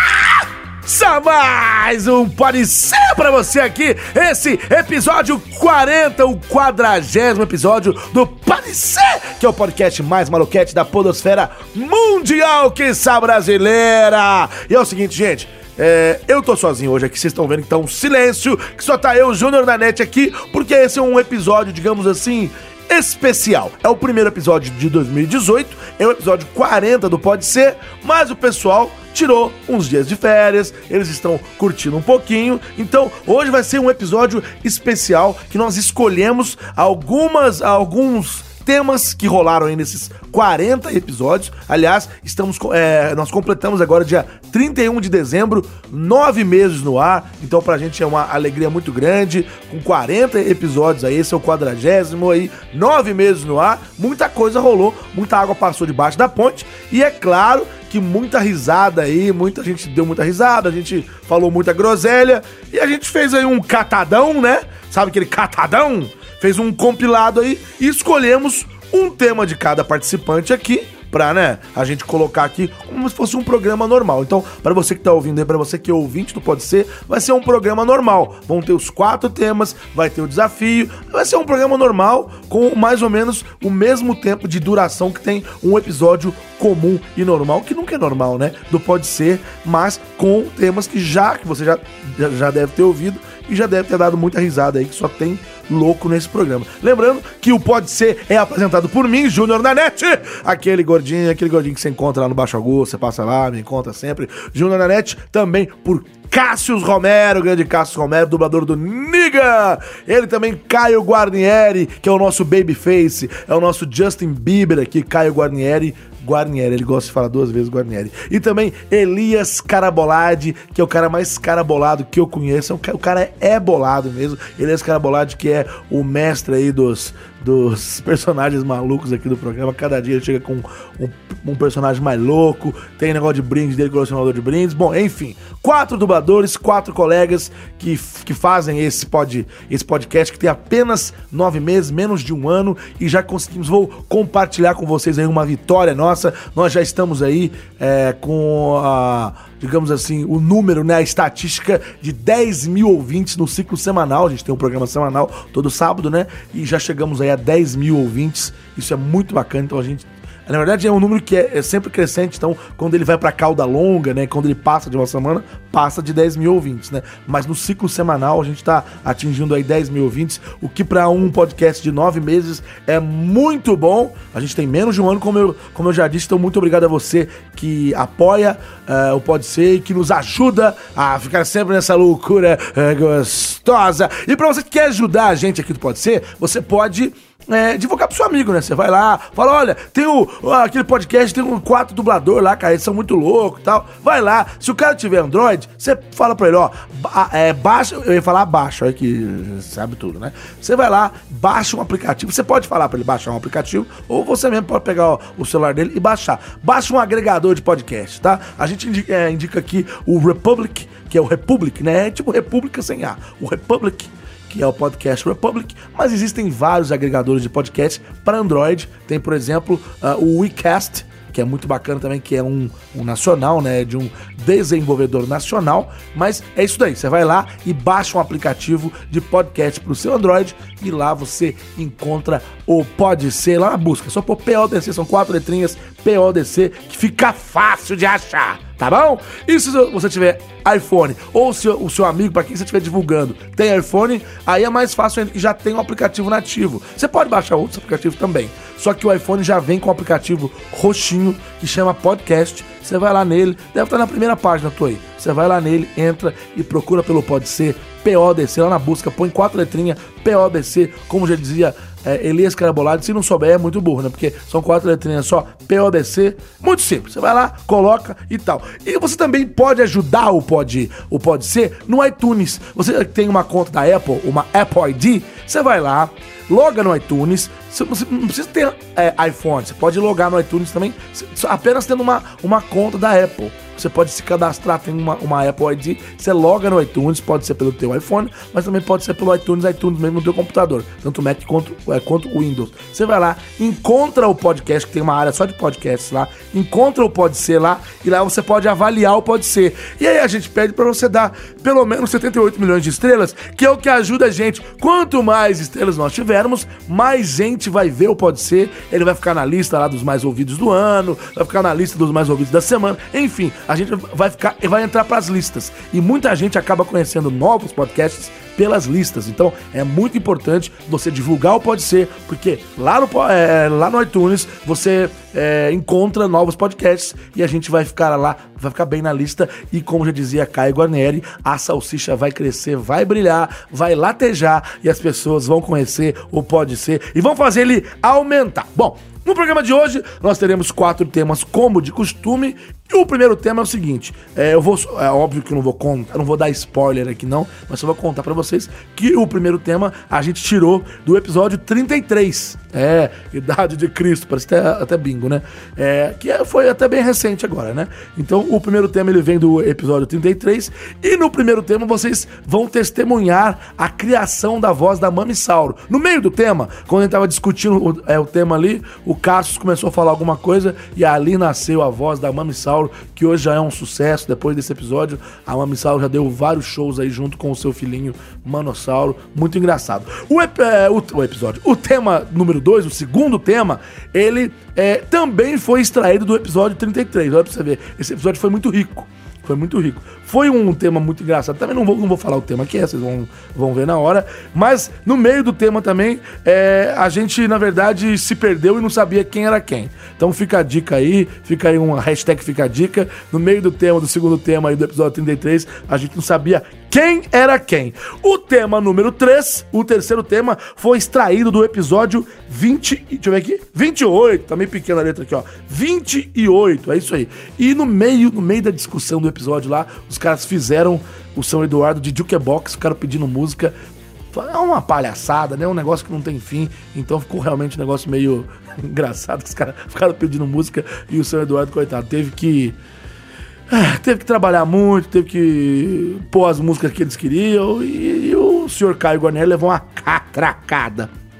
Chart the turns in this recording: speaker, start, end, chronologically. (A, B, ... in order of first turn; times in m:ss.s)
0:00.8-7:03.7 A
7:04.3-7:12.8 A
7:13.7-7:21.1 A